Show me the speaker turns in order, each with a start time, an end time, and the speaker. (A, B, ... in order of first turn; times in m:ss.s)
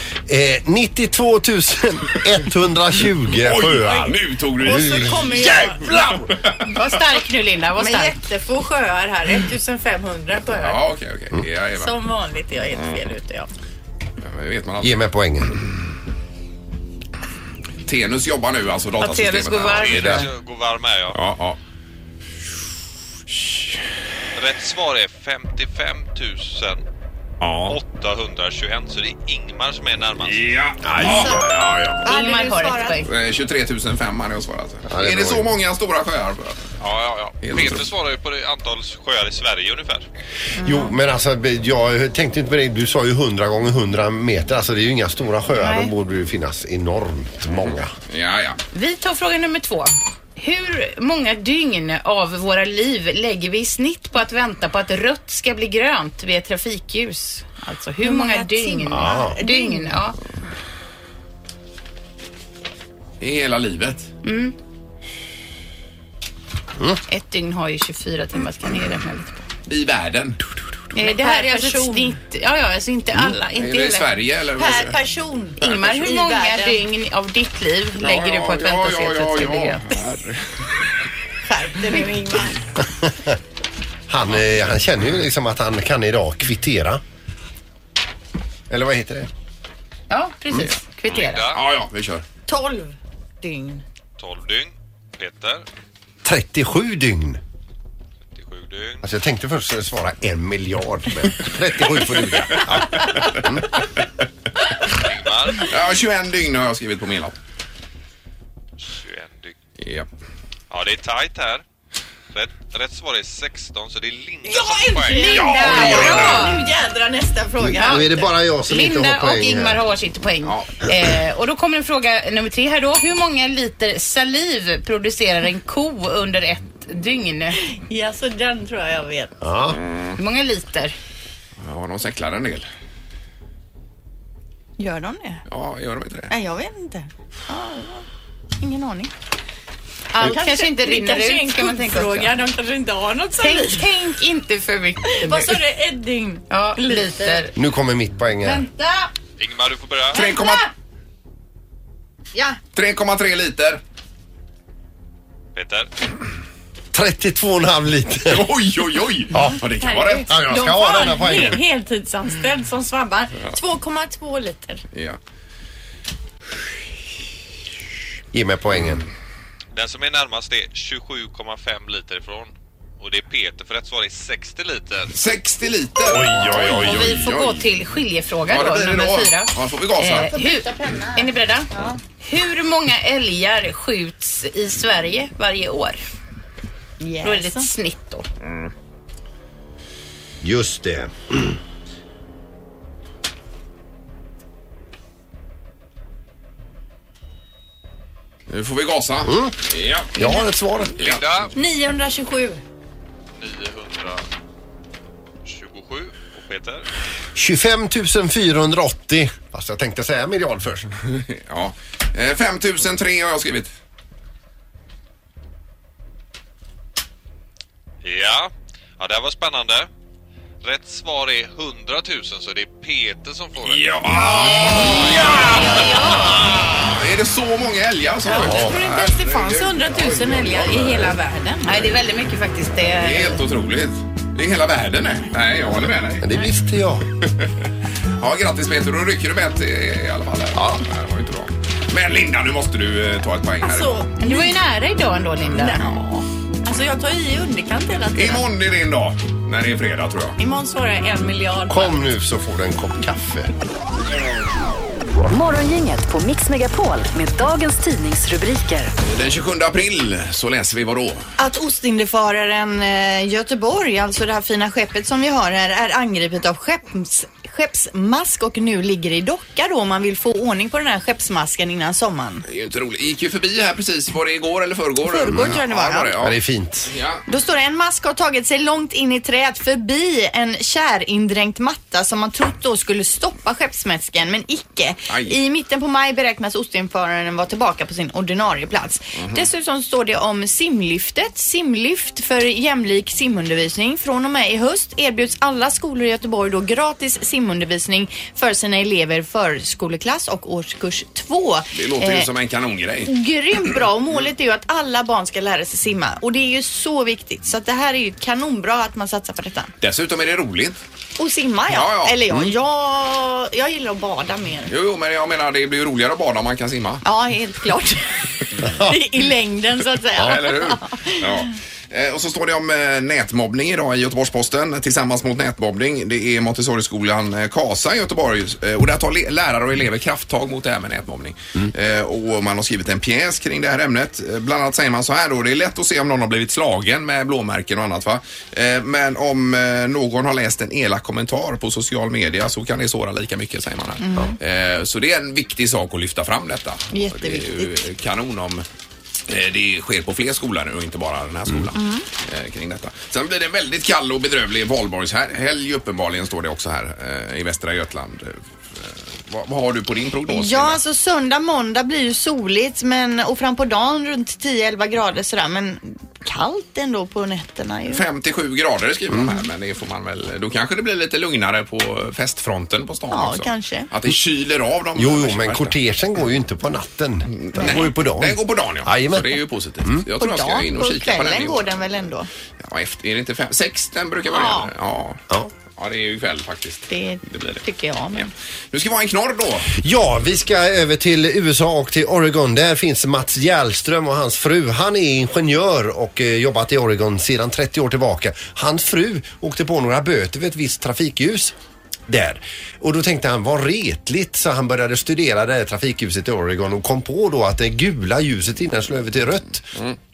0:00.3-0:05.4 A
0:03.3-0:06.7 B
0:04.6-0:06.0 C
0:06.6-0:08.2 D
0:07.8-0:10.8 C
0:10.5-0:11.9 B
0:11.8-0:13.5 C
0:12.7-0:13.0 B
0:14.2-0:15.0 B
0:14.8-0:15.6 A
0:17.8-0:20.3 B
0:19.0-0:20.3 D
0:19.8-0:21.2 E
0:21.1-0:21.6 B
0:23.4-0:23.8 B
0:24.4-0:26.8 E
0:27.4-0:27.8 B
0:27.6-0:30.5 E
0:30.2-0:32.0 B
0:30.8-0:31.4 A
0:31.0-0:31.5 C
0:32.0-0:33.0 C
0:32.0-0:33.1 D
0:33.0-0:36.8 B
0:34.9-0:35.5 A
0:36.8-0:40.1 E
0:37.4-0:37.9 B
0:40.6-0:41.0 C
0:40.6-0:47.9 A
0:47.5-0:48.6 B
0:48.7-1:00.2 D
0:58.0-1:00.0 C
0:58.9-0:59.4 A
1:03.2-1:04.1 B
1:04.2-1:04.5 D
1:07.1-1:09.4 D
1:09.7-1:10.4 B
1:10.9-1:14.1 D
1:11.0-1:12.1 C
1:13.5-1:15.0 B
1:14.6-1:16.8 C
1:15.6-1:19.9 D
1:18.0-1:20.6 B
1:21.4-1:22.6 C
1:22.9-1:23.4 A
1:24.1-1:27.0 A
1:28.7-1:29.3 A
1:30.1-1:31.4 D
1:31.1-1:31.6 E
1:31.5-1:32.2 B
1:32.5-1:33.8 C
1:34.2-1:35.6 E
1:36.2-1:37.4 A
1:38.4-1:39.0 E
1:39.0-1:43.7 A
1:42.2-1:43.4 B
1:44.9-1:45.7 E
1:45.6-1:47.4 B
1:48.8-1:49.6 E
1:49.8-1:50.1 B
1:50.7-1:51.6 E
1:52.3-1:55.8 E
1:54.5-1:58.3 C
1:55.1-1:56.6 D
1:55.2-1:56.6 B
1:57.6-1:59.8 A
1:57.8-1:58.1 D
1:58.7-2:07.6 D
2:00.4-2:00.7 B
2:07.6-2:09.4 C
2:09.4-2:09.8 A
2:10.2-2:11.0 D
2:11.6-2:12.7 B
2:14.8-2:15.4 C
2:15.5-2:16.3 B
2:16.3-2:18.1 C
2:18.6-2:19.1 C
2:20.1-2:22.3 D
2:20.2-2:23.8 C
2:23.4-2:25.6 D
2:25.1-2:27.5 C
2:26.5-2:27.5 D
2:27.5-2:28.6 A
2:28.5-2:29.1 C
2:29.4-2:30.2 E
2:30.1-2:30.7 B
2:30.1-2:30.7 C
2:32.3-2:32.6 C
2:32.7-2:33.8 B
2:35.6-2:35.9 E
2:36.9-2:38.5 A
2:38.2-2:40.4 B
2:39.3-2:39.6 A
2:39.8-2:44.8 C
2:40.3-2:41.6 A
2:44.9-2:45.2 B
2:48.3-2:49.1 A
2:49.7-2:55.1 E
2:55.1-2:57.7 B
2:56.2-2:56.6 A
2:56.5-3:01.7 D
2:58.5-3:00.3 B
3:00.2-3:02.0 C
3:02.2-3:06.0 D
3:07.0-3:07.7 C
3:07.2-3:08.3 D
3:10.4-3:11.6 A
3:18.5-3:20.2 B
3:19.2-3:19.5 A
3:20.2-3:21.0 A
3:20.2-3:20.4 C
3:21.0-3:21.5 B
3:21.0-3:21.5 E
3:21.6-3:22.6 C
3:23.4-3:24.2 E
3:25.4-3:26.9 E
3:27.4-3:30.9 A
3:31.1-3:33.7 B
3:38.0-3:39.9 E
3:40.6-3:45.3 E
3:43.6-3:51.2 B
3:45.5-3:46.5 C
3:48.2-3:51.9 C
3:48.4-3:48.7 A
3:51.6-3:53.4 D
3:53.0-3:56.3 B
3:56.2-3:57.1 A
3:57.2-3:57.5 B
3:58.2-4:04.0 B
4:00.6-4:00.8 A
4:03.6-4:04.6 C
4:04.2-4:05.8 D
4:05.6-4:08.5 C
4:05.8-4:06.0 B
4:08.1-4:10.4 B
4:10.4-4:12.0 C
4:11.7-4:13.5 A
4:15.3-4:18.9 F
4:19.0-4:21.3 B
4:21.4-4:32.4 C
4:32.5-4:37.2 B
4:35.0-4:36.1 C
4:35.3-4:35.6 A
4:36.2-4:36.9 A
4:37.3-5:02.3 C
4:45.1-4:45.4 B
4:49.2-4:49.5 B
5:01.7-5:03.1 B
5:03.1-5:09.7 C
5:09.8-5:10.8 B
5:11.2-5:14.7 C
5:11.7-5:12.2 B
5:14.7-5:17.0 B
5:17.0-5:21.4 C
5:18.6-5:19.0 A
5:20.2-5:48.6 B
5:44.0-5:44.4 C
5:46.9-5:47.8 C
5:49.3-6:00.8 B
5:51.8-5:52.1 C
6:00.3-6:08.0 C
6:07.9-6:15.8 B
6:13.1-6:13.9 C
6:15.0-6:20.0 A
6:17.3-6:21.8 B
6:17.6-6:17.8 C
6:20.2-6:22.3 C
6:22.6-6:25.2 B
6:24.3-6:24.7 C
6:25.7-6:27.6 B
6:26.9-6:28.3 C
6:28.2-6:29.8 B
6:29.8-6:41.5 A
6:42.1-6:49.8 A